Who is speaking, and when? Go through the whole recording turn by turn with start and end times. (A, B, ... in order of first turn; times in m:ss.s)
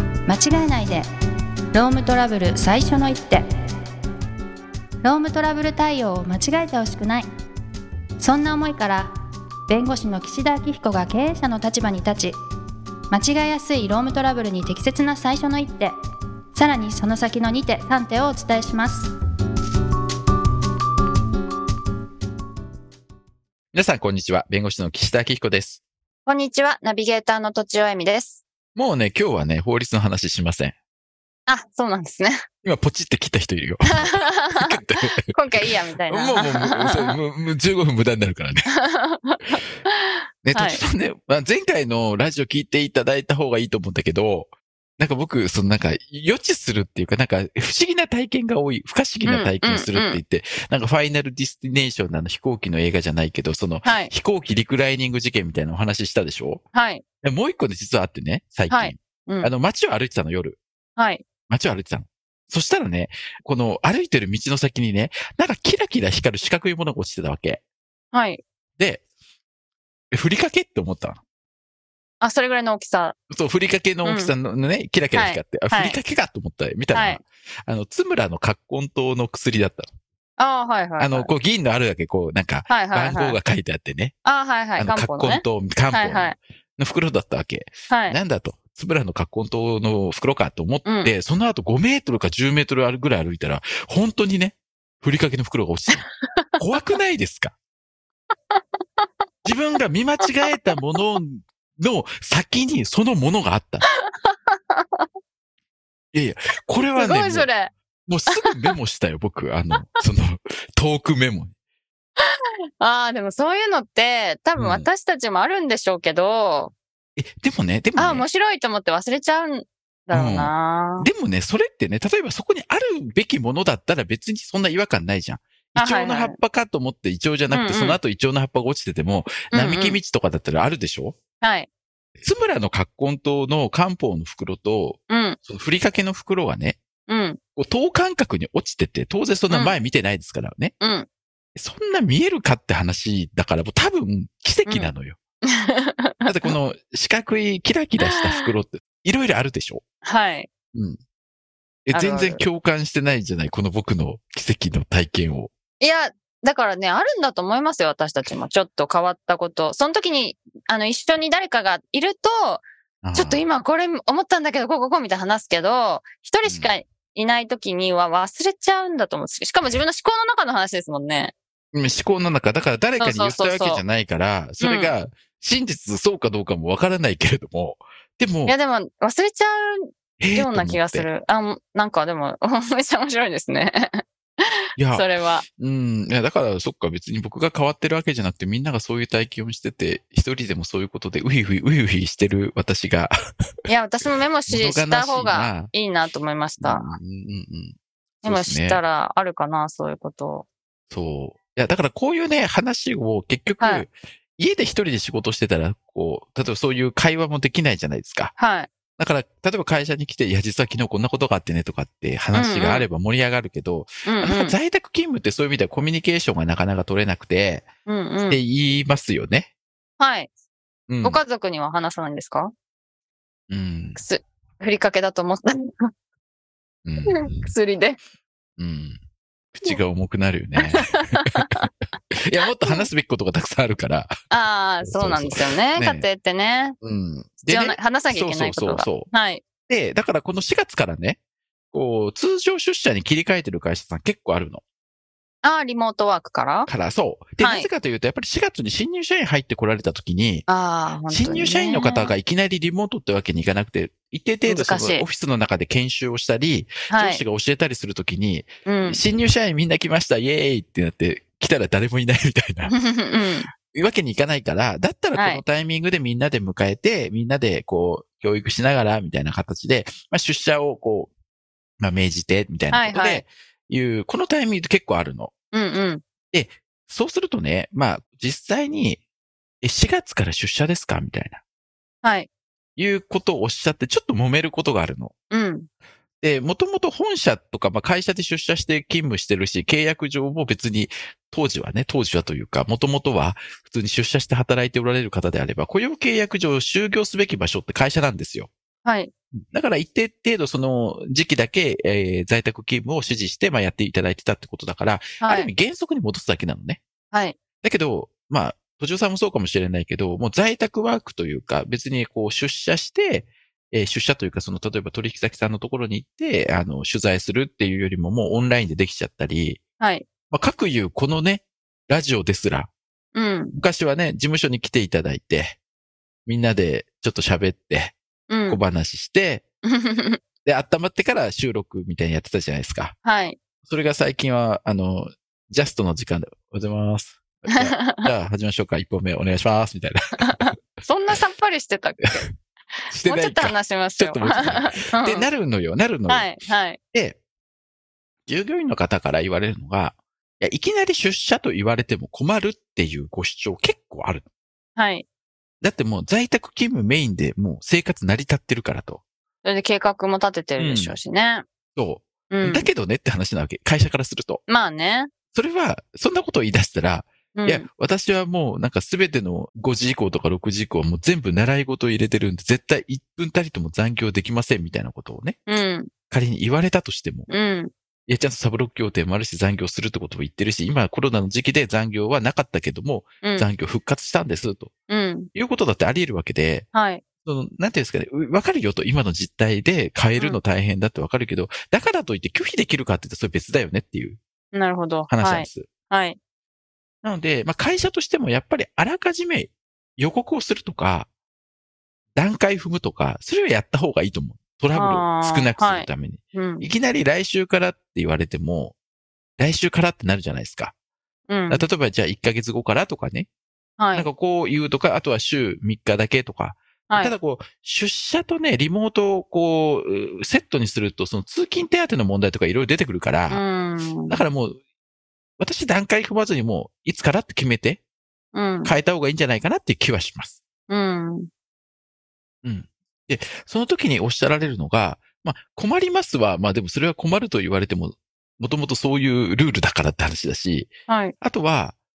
0:00.3-0:01.0 A
0:01.7-0:03.4 A
0:05.0-0:07.3 A
0:08.2-0:09.1 A
0:09.7-0:12.4 A
0:13.1-0:16.0 A
0:16.5-0:19.1 A
0:23.7-0:25.8 B
0:26.3-0:28.4 C
0:28.7-0:30.7 B
0:31.5-0:32.4 C
0:32.6-0:38.7 B
0:33.9-0:34.7 C
0:35.2-0:37.1 C
0:38.9-0:40.8 C
0:40.4-0:56.6 B
0:49.2-0:50.2 C
0:53.8-0:54.1 C
0:56.7-0:57.0 C
0:57.2-1:00.6 B
0:58.7-0:59.5 C
1:01.0-1:01.2 C
1:01.5-1:07.6 B
1:08.1-1:08.4 C
1:08.8-1:09.0 B
1:10.1-1:11.2 B
1:12.2-1:13.2 C
1:13.3-1:19.9 B
1:14.0-1:14.3 C
1:15.2-1:16.0 C
1:16.9-1:17.2 C
1:20.4-1:21.3 C
1:21.0-1:24.1 B
1:22.7-1:23.4 C
1:24.2-1:26.4 C
1:24.8-1:36.0 B
1:27.9-1:28.2 C
1:30.8-1:31.1 C
1:36.2-1:36.6 C
1:36.6-1:37.5 B
1:38.5-1:39.1 C
1:39.4-1:43.8 B
1:44.0-1:45.0 C
1:46.1-1:47.5 B
1:46.9-1:47.7 C
1:48.1-1:51.5 B
1:48.4-1:48.7 C
1:52.8-1:56.7 C
1:54.6-1:54.9 B
1:57.2-1:58.2 B
1:58.0-2:01.1 C
2:00.1-2:11.2 B
2:05.8-2:06.4 C
2:07.5-2:08.0 C
2:09.5-2:10.0 C
2:11.4-2:11.7 C
2:12.2-2:16.8 B
2:15.1-2:15.4 C
2:17.1-2:17.4 C
2:17.6-2:20.7 B
2:19.5-2:19.8 C
2:20.8-2:21.1 C
2:21.5-2:25.2 B
2:24.7-2:24.9 C
2:25.6-2:26.5 C
2:26.2-2:29.8 B
2:30.0-2:30.5 C
2:30.7-2:31.0 B
2:31.9-2:35.5 B
2:31.9-2:32.4 C
2:35.8-2:51.3 C
2:43.0-2:43.4 B
2:46.4-2:46.7 B
2:51.7-2:58.6 B
2:53.0-2:53.8 C
2:54.6-2:54.9 C
2:58.5-3:04.0 C
3:00.2-3:01.1 B
3:04.8-3:13.1 B
3:04.9-3:05.4 C
3:13.7-3:16.9 C
3:14.5-3:15.7 B
3:16.6-3:18.8 B
3:18.2-3:20.4 C
3:20.9-3:28.3 B
3:23.6-3:23.8 C
3:28.4-3:28.7 C
3:29.0-3:37.7 B
3:32.3-3:32.9 C
3:34.0-3:34.6 C
3:37.8-3:38.4 C
3:38.3-3:39.5 B
3:40.0-3:40.3 C
3:40.9-3:41.2 B
3:41.0-3:42.5 C
3:43.5-3:44.0 B
3:44.0-3:45.9 C
3:46.8-3:47.5 B
3:47.1-3:48.0 C
3:48.6-3:49.0 B
3:49.5-3:51.7 B
3:50.7-3:51.6 C
3:52.3-3:54.2 B
3:54.3-3:56.8 C
3:54.8-3:56.0 B
3:56.8-3:59.1 B
3:57.4-3:59.4 C
3:59.6-4:01.2 B
4:01.7-4:04.6 B
4:05.4-4:06.7 C
4:06.7-4:10.5 B
4:07.4-4:07.7 C
4:10.5-4:12.1 C
4:11.1-4:22.8 B
4:14.5-4:15.0 C
4:16.9-4:17.2 C
4:18.6-4:19.0 C
4:22.7-4:23.5 C
4:23.6-4:31.1 B
4:25.2-4:25.4 C
4:31.8-4:35.3 B
4:32.7-4:33.2 C
4:35.5-4:36.0 C
4:36.3-4:39.0 B
4:39.6-4:41.4 B
4:42.0-4:42.3 C
4:42.8-4:45.1 B
4:45.3-4:45.7 C
4:46.2-4:58.5 B
4:58.8-4:59.1 C
4:59.5-5:06.8 B
5:05.2-5:05.5 C
5:07.1-5:07.4 C
5:07.6-5:19.6 B
5:19.8-5:20.1 C
5:20.3-5:22.7 B
5:23.1-5:23.6 C
5:23.5-5:25.6 B
5:26.2-5:29.4 B
5:28.3-5:28.6 C
5:29.7-5:30.2 C
5:30.4-5:33.0 B
5:33.0-5:33.4 C
5:33.6-5:40.6 B
5:37.6-5:38.0 C
5:40.3-5:42.3 C
5:42.9-5:46.4 B
5:43.0-5:45.3 C
5:46.1-5:46.8 C
5:46.9-5:47.2 B
5:48.2-5:54.3 B
5:54.8-5:55.0 C
5:55.6-5:59.0 B
5:59.4-6:01.4 C
6:00.6-6:01.0 B
6:01.8-6:04.4 B
6:02.3-6:02.7 C
6:04.5-6:05.1 C
6:05.3-6:15.4 B
6:07.3-6:07.6 C
6:15.5-6:15.9 C
6:16.1-6:17.3 B
6:17.3-6:17.7 C
6:18.1-6:24.7 B
6:23.2-6:23.5 C
6:24.9-6:25.3 C
6:25.3-6:26.7 B
6:26.7-6:27.0 C
6:27.2-6:34.2 B
6:34.5-6:36.2 C
6:35.1-6:35.7 B
6:37.0-6:41.1 B
6:42.1-6:48.8 B
6:44.7-6:46.7 C
6:49.4-6:50.7 B
6:51.3-6:51.7 C
6:51.5-6:53.3 B
6:53.8-6:54.1 C
6:53.9-7:03.4 B
6:56.9-6:57.1 C
7:03.3-7:04.2 C
7:04.1-7:04.6 B
7:05.4-7:07.8 B
7:08.3-7:08.7 C
7:08.6-7:10.4 B
7:10.7-7:11.3 C
7:12.4-7:21.8 B
7:20.9-7:21.1 C